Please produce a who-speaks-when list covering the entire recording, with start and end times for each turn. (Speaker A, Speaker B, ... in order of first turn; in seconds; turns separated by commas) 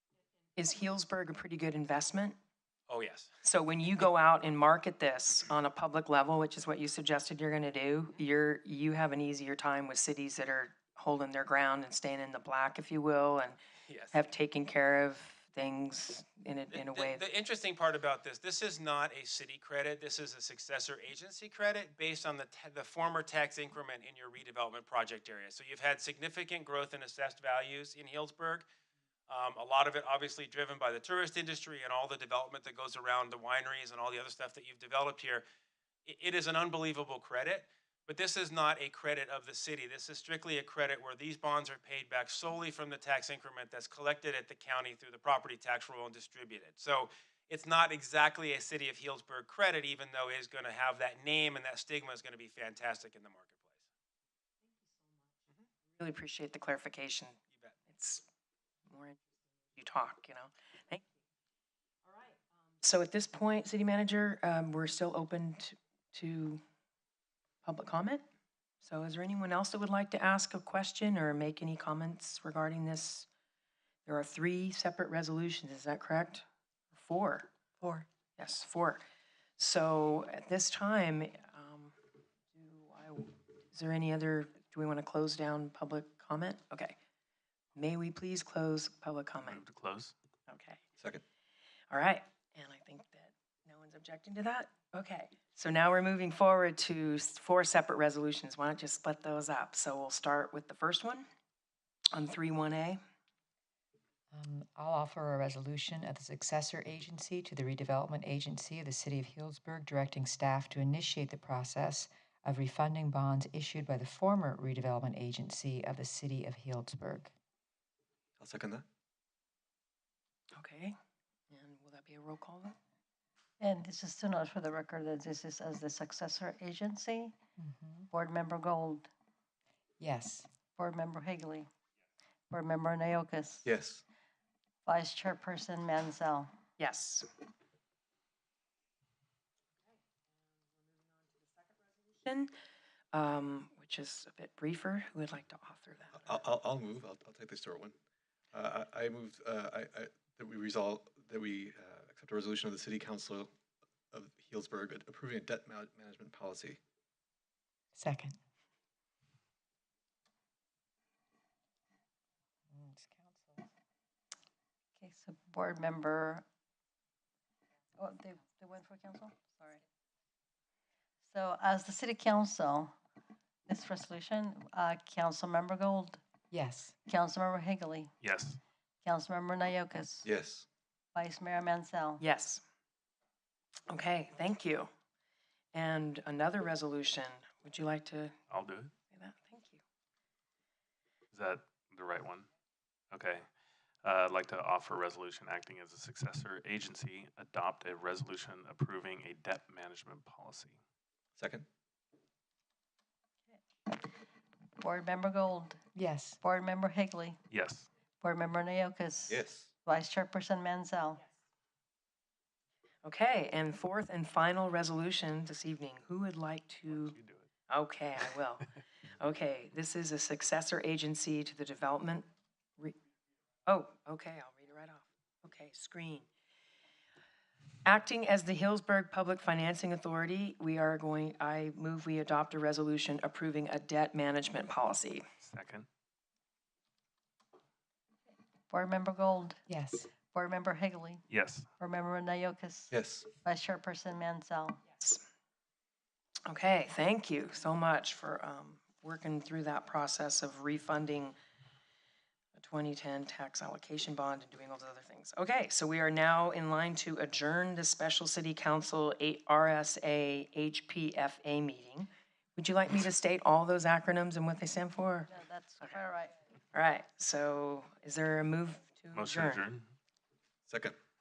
Speaker A: 0.6-2.4, Speaker B: 2.9-3.3, Speaker A: 3.4-13.6, Speaker B: 13.9-14.2, Speaker A: 14.1-17.2, Speaker B: 16.7-28.7, Speaker B: 29.3-35.4, Speaker B: 36.1-53.7, Speaker A: 56.0-58.3, Speaker A: 58.9-59.2, Speaker A: 59.8-61.0, Speaker A: 62.1-66.6, Speaker A: 67.6-68.2, Speaker A: 68.8-73.3, Speaker A: 74.1-77.5, Speaker A: 78.4-79.0, Speaker A: 79.6-82.0, Speaker A: 82.5-87.0, Speaker A: 87.7-89.6, Speaker C: 89.4-90.1, Speaker A: 90.5-90.8, Speaker D: 91.0-91.2, Speaker A: 91.9-101.2, Speaker A: 102.1-103.0, Speaker E: 104.3-117.3, Speaker D: 118.4-118.8, Speaker A: 120.5-120.9, Speaker A: 121.5-122.8, Speaker F: 123.6-127.3, Speaker E: 127.6-128.1, Speaker F: 128.1-129.1, Speaker E: 130.0-130.5, Speaker F: 130.8-131.7, Speaker F: 132.5-133.7, Speaker D: 133.7-134.0, Speaker F: 134.8-136.5, Speaker A: 136.8-137.3, Speaker A: 141.0-142.5, Speaker A: 143.1-146.4, Speaker D: 146.2-148.0, Speaker D: 148.5-153.5, Speaker D: 154.1-156.8, Speaker E: 157.9-158.4, Speaker E: 162.7-163.7, Speaker F: 165.0-166.4, Speaker F: 168.0-169.8, Speaker F: 171.3-172.9, Speaker F: 173.7-176.2, Speaker E: 176.5-176.9, Speaker F: 177.1-178.1, Speaker C: 178.2-178.6, Speaker F: 179.0-180.3, Speaker D: 180.2-180.7, Speaker F: 181.1-182.2, Speaker A: 182.2-182.6, Speaker A: 183.9-184.9, Speaker A: 185.7-188.4, Speaker C: 188.5-188.9, Speaker A: 189.1-189.8, Speaker C: 191.3-192.5, Speaker C: 193.1-193.5, Speaker C: 194.0-200.8, Speaker D: 201.4-201.7, Speaker F: 204.8-205.8, Speaker E: 205.9-206.4, Speaker F: 206.4-207.4, Speaker C: 207.5-207.9, Speaker F: 208.2-211.2, Speaker D: 209.3-209.7, Speaker A: 213.0-217.2, Speaker C: 216.9-217.5, Speaker A: 217.7-222.2, Speaker A: 223.7-226.3, Speaker A: 227.8-235.2, Speaker C: 235.4-235.9, Speaker F: 238.7-239.6, Speaker E: 239.7-240.1, Speaker F: 240.3-241.2, Speaker C: 241.3-241.7, Speaker F: 241.8-244.8, Speaker D: 242.9-243.2, Speaker A: 244.9-245.2, Speaker A: 246.5-251.3, Speaker A: 252.6-266.0, Speaker F: 265.3-266.3, Speaker A: 266.7-269.6, Speaker C: 269.1-269.9, Speaker D: 270.7-271.0